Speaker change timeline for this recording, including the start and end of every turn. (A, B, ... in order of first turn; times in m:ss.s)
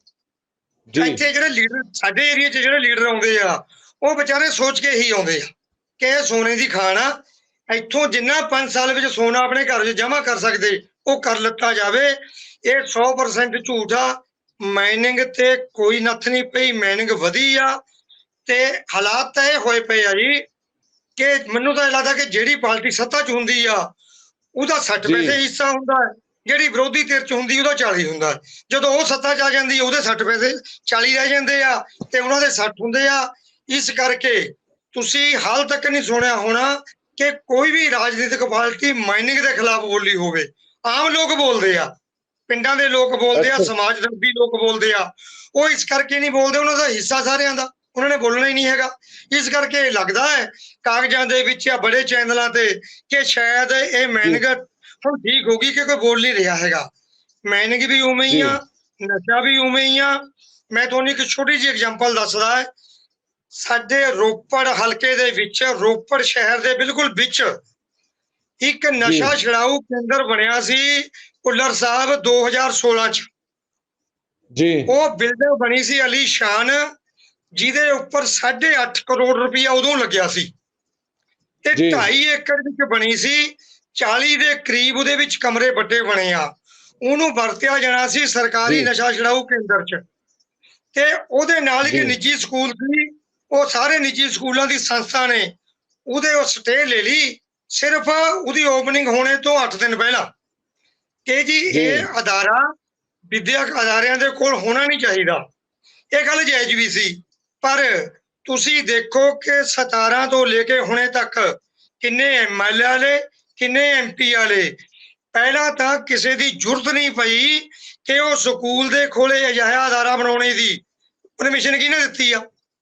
0:00.9-0:01.2 A
0:01.0-0:07.2 B
0:07.7-0:17.8 B
0:18.4-0:20.4 B
0:21.2-0:23.9 B
0:24.6-0:41.9 B
0:25.0-0:25.4 A
0:42.5-0:56.9 B
0:43.3-0:43.7 A
0:57.5-1:00.2 B
0:58.3-0:58.6 A
1:00.7-1:02.7 B
1:03.5-1:07.6 B
1:08.6-1:13.3 B
1:09.0-1:09.4 A
1:14.5-1:14.9 A
1:14.9-1:16.9 B
1:17.5-1:20.5 B
1:21.6-1:30.0 B
1:21.7-1:22.1 A
1:28.6-1:28.9 A
1:30.9-1:35.5 B
1:31.8-1:32.1 A
1:36.1-1:40.3 B
1:41.2-1:42.7 B
1:41.7-1:42.1 A
1:43.3-1:45.4 B
1:46.1-1:54.8 B
1:55.3-2:00.8 B
2:01.4-2:02.4 B